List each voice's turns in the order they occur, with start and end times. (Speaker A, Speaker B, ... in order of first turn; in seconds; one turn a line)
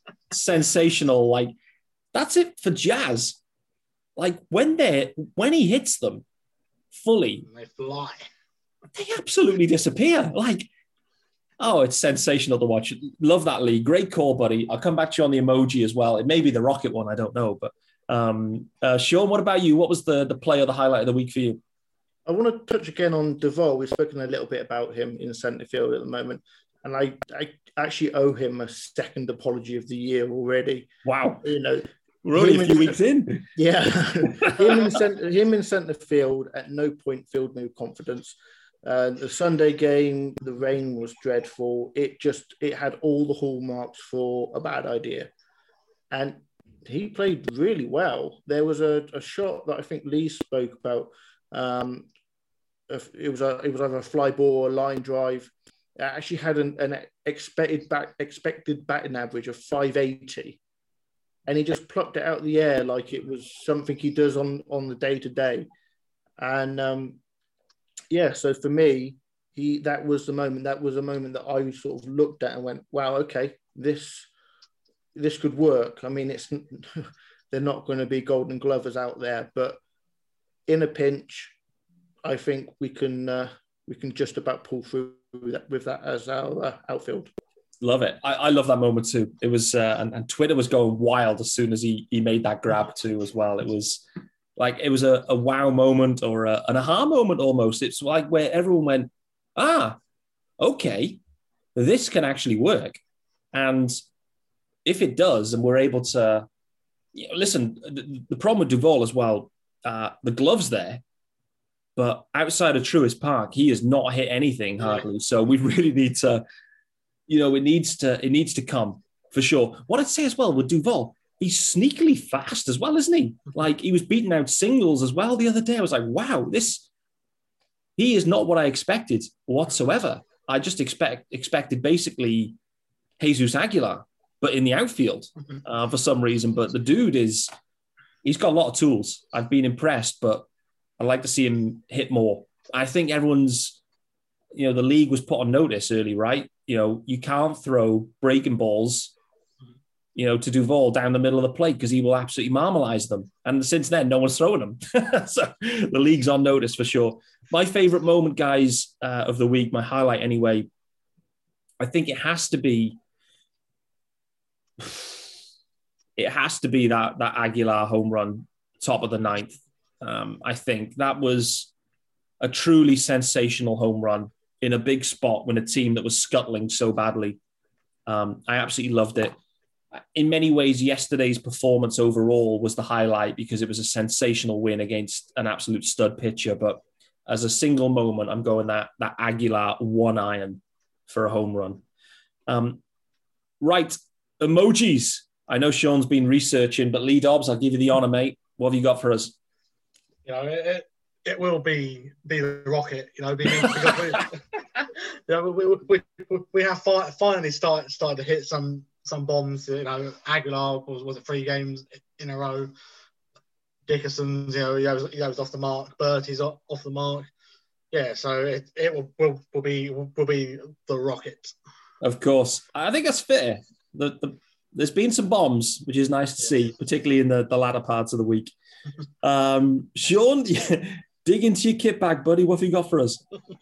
Speaker A: 0.3-1.5
Speaker A: 2.1-3.4
Speaker A: 4.2-6.2
Speaker A: 6.9-7.4
Speaker B: 7.5-8.2
Speaker A: 8.9-10.7
Speaker A: 11.6-21.6
Speaker C: 22.2-30.9
Speaker A: 31.0-31.4
Speaker C: 31.4-32.9
Speaker A: 32.2-33.5
Speaker C: 33.5-45.3
Speaker A: 34.2-34.6
Speaker C: 46.1-52.1
Speaker C: 52.9-60.6
Speaker C: 61.5-65.7
Speaker C: 66.4-67.2
Speaker C: 68.1-74.3
Speaker C: 75.1-79.8
Speaker C: 80.7-81.5
Speaker C: 82.2-87.3
Speaker A: 87.8-94.0
Speaker A: 94.5-100.0
Speaker A: 100.6-101.2
Speaker A: 101.7-103.0
Speaker A: 103.5-104.0
Speaker A: 104.8-106.5
Speaker A: 107.1-111.0
Speaker A: 112.0-116.4
Speaker A: 117.3-126.9
Speaker A: 128.0-132.5
Speaker A: 133.2-137.5
Speaker A: 138.2-140.5
Speaker A: 141.0-143.8
Speaker A: 144.5-149.1
Speaker A: 150.1-160.7
Speaker A: 161.8-163.0
Speaker A: 164.8-165.1
Speaker A: 166.2-171.7
Speaker A: 172.4-177.4
Speaker A: 178.1-179.3
Speaker A: 180.1-191.8
Speaker A: 192.5-192.8
Speaker A: 193.6-199.3
Speaker B: 200.2-212.7
Speaker B: 213.9-217.3
Speaker B: 217.9-221.5
Speaker A: 222.0-228.5
Speaker A: 229.2-233.2